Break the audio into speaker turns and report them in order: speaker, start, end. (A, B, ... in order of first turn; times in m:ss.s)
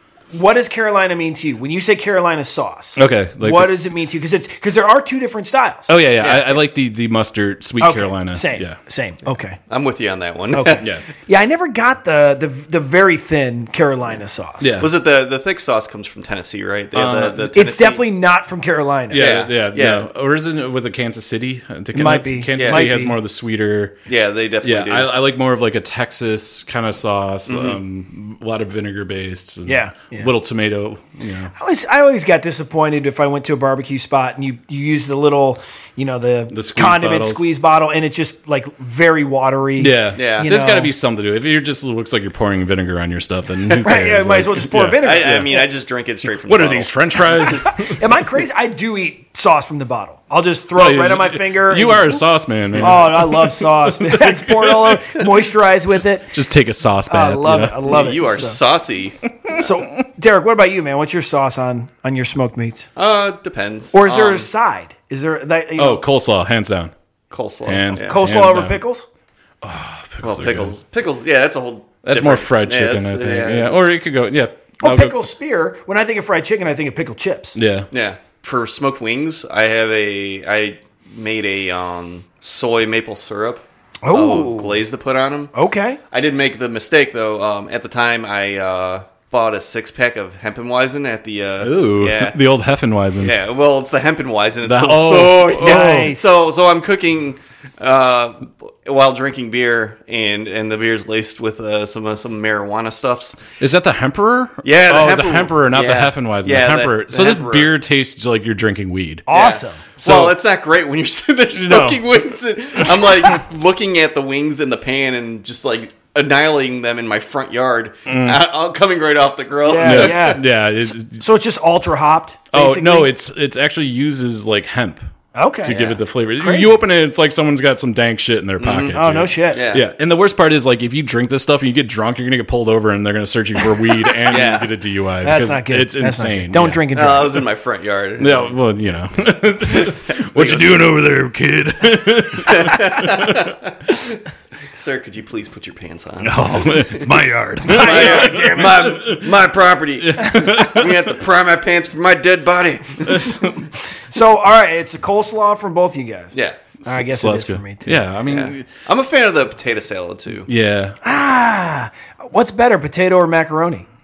0:00.3-0:06.0 A
0:03.0-0:03.8 B
0:05.9-0:08.8 B
0:06.2-0:06.6 C
0:07.8-0:09.6 A
0:09.7-0:10.9 C
0:10.5-0:14.8 A
0:14.6-0:14.9 B
0:14.8-0:18.0 C
0:16.9-0:17.6 B
0:17.5-0:19.3 A
0:19.1-0:24.0 B
0:19.1-0:20.1 C
0:21.9-0:23.2 A
0:22.6-0:22.9 C
0:24.1-0:25.1 C
0:24.6-0:31.5 B
0:27.5-0:27.8 C
0:29.6-0:30.3 A
0:31.5-0:40.9 A
0:36.5-0:37.4 B
0:39.8-0:45.0 B
0:40.1-0:40.5 C
0:43.8-0:45.7 A
0:45.0-0:47.6 C
0:46.4-0:48.0 B
0:47.5-0:52.2 A
0:50.7-0:55.2 B
0:52.7-0:53.1 C
0:52.8-0:56.3 A
0:55.9-0:58.0 B
0:57.1-0:58.6 A
0:57.8-0:59.2 C
0:59.5-1:02.9 A
1:03.0-1:04.5 C
1:03.9-1:06.0 A
1:05.8-1:06.9 B
1:07.3-1:08.2 C
1:07.6-1:08.8 B
1:08.0-1:09.0 A
1:09.6-1:10.8 B
1:10.2-1:13.9 C
1:12.0-1:15.2 B
1:14.8-1:17.6 A
1:17.5-1:17.9 B
1:17.9-1:25.5 C
1:24.0-1:24.8 A
1:25.5-1:26.0 A
1:26.1-1:32.4 C
1:31.6-1:33.3 B
1:33.2-1:43.4 C
1:34.6-1:36.1 B
1:35.6-1:36.5 A
1:43.6-1:49.3 B
1:44.6-1:47.7 C
1:49.3-1:49.8 A
1:49.3-2:00.4 C
1:50.0-1:50.4 B
1:51.5-1:52.1 B
1:52.8-1:53.4 B
1:58.1-1:58.4 B
1:59.6-2:03.1 A
1:59.8-2:01.2 B
2:02.5-2:05.0 B
2:05.3-2:05.9 A
2:05.6-2:16.8 B
2:05.6-2:06.0 C
2:06.4-2:06.7 A
2:08.6-2:09.9 C
2:08.9-2:09.6 A
2:14.2-2:14.7 C
2:15.2-2:17.4 A
2:16.9-2:18.6 C
2:18.2-2:23.5 B
2:19.7-2:20.8 C
2:22.4-2:33.5 C
2:26.2-2:29.4 B
2:27.6-2:28.8 A
2:30.0-2:31.2 B
2:33.1-2:33.7 B
2:34.1-2:38.0 A
2:36.8-2:38.7 B
2:38.2-2:40.5 C
2:40.5-2:41.0 B
2:41.0-2:43.8 A